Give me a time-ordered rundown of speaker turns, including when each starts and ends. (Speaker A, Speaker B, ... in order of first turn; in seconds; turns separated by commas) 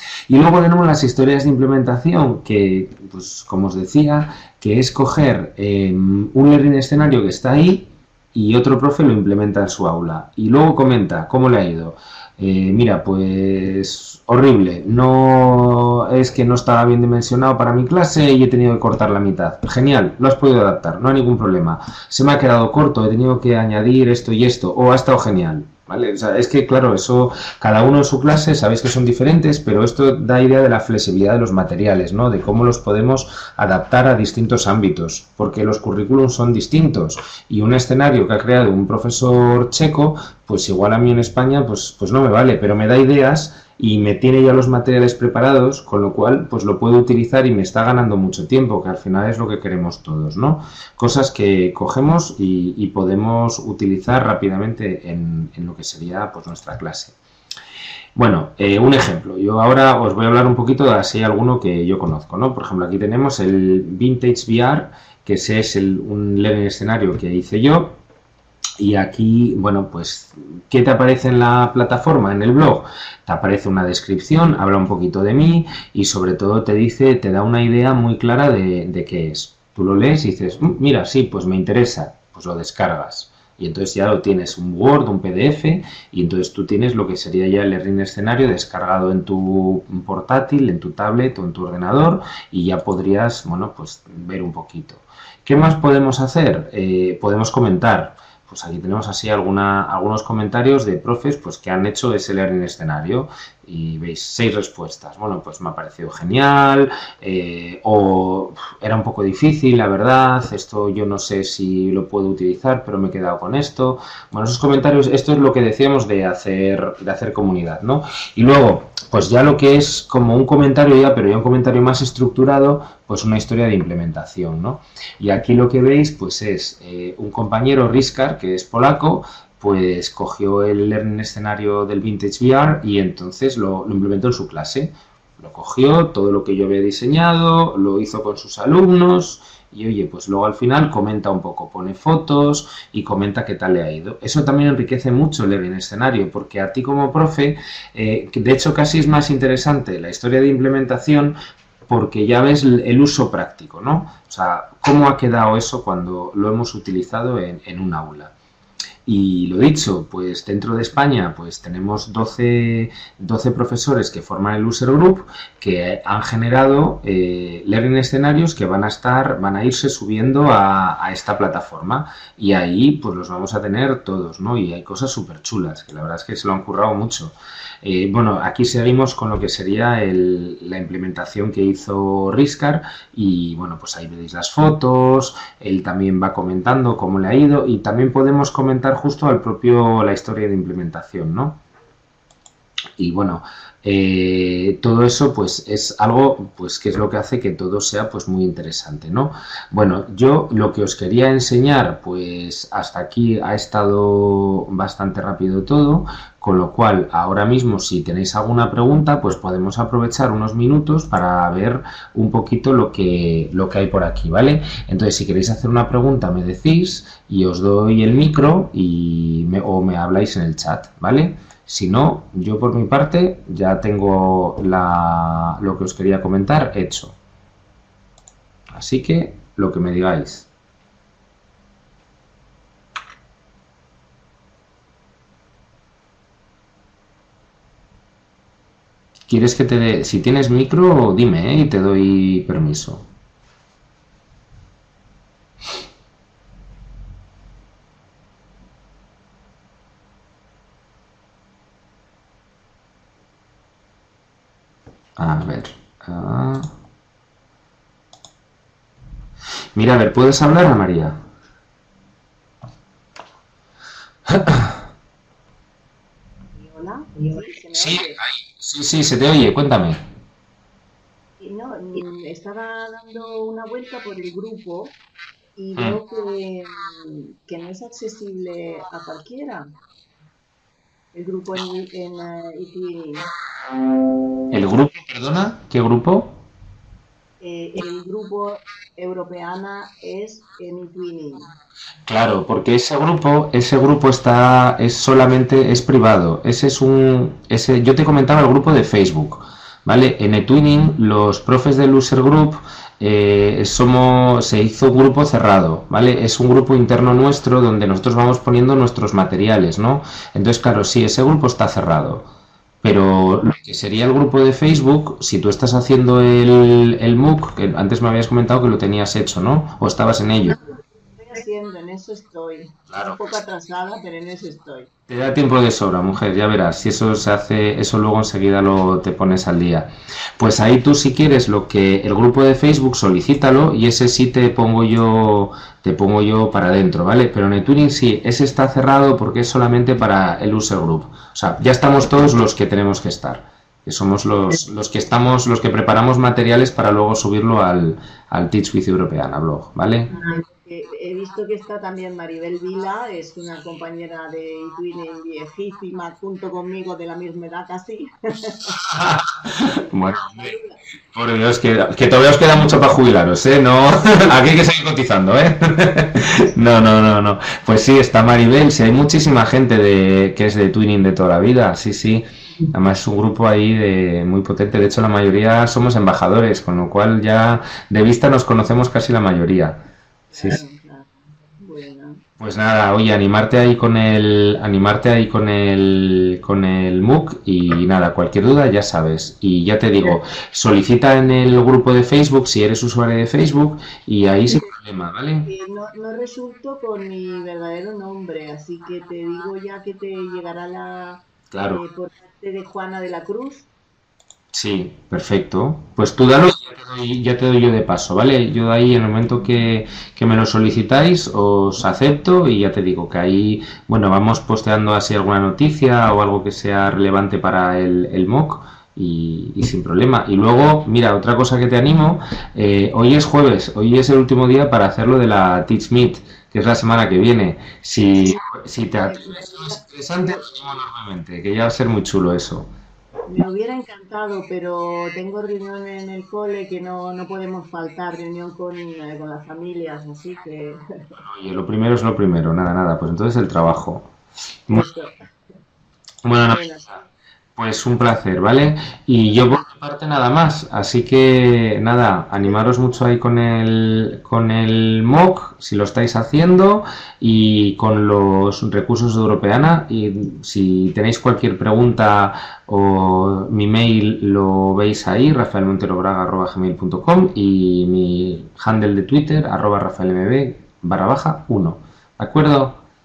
Speaker A: 0.3-57.1, Speaker A: 58.1-68.0, Speaker A: 68.8-151.3, Speaker A: 151.9-158.3, Speaker A: 159.1-191.6, Speaker A: 193.0-227.2, Speaker A: 228.7-230.5, Speaker A: 239.3-243.1, Speaker A: 255.2-256.7, Speaker A: 259.7-261.2, Speaker A: 264.3-264.8, Speaker B: 266.5-268.2, Speaker A: 267.7-270.0, Speaker B: 271.4-275.0, Speaker B: 275.6-279.6, Speaker B: 281.1-283.3, Speaker A: 284.5-286.4, Speaker B: 287.4-291.5, Speaker A: 292.1-312.3, Speaker A: 312.8-320.6, Speaker B: 321.1-324.9, Speaker A: 322.9-323.2, Speaker A: 325.1-350.1, Speaker B: 350.1-358.8, Speaker A: 358.8-360.5, Speaker B: 359.9-360.8, Speaker A: 361.1-380.6, Speaker B: 380.3-382.2, Speaker A: 382.4-395.5, Speaker B: 395.4-403.7, Speaker A: 401.5-401.8, Speaker A: 404.5-432.7, Speaker B: 429.0-430.4, Speaker B: 433.3-441.2, Speaker A: 441.2-444.1, Speaker B: 444.7-445.2, Speaker A: 446.2-446.6, Speaker B: 446.5-447.0, Speaker A: 447.6-472.8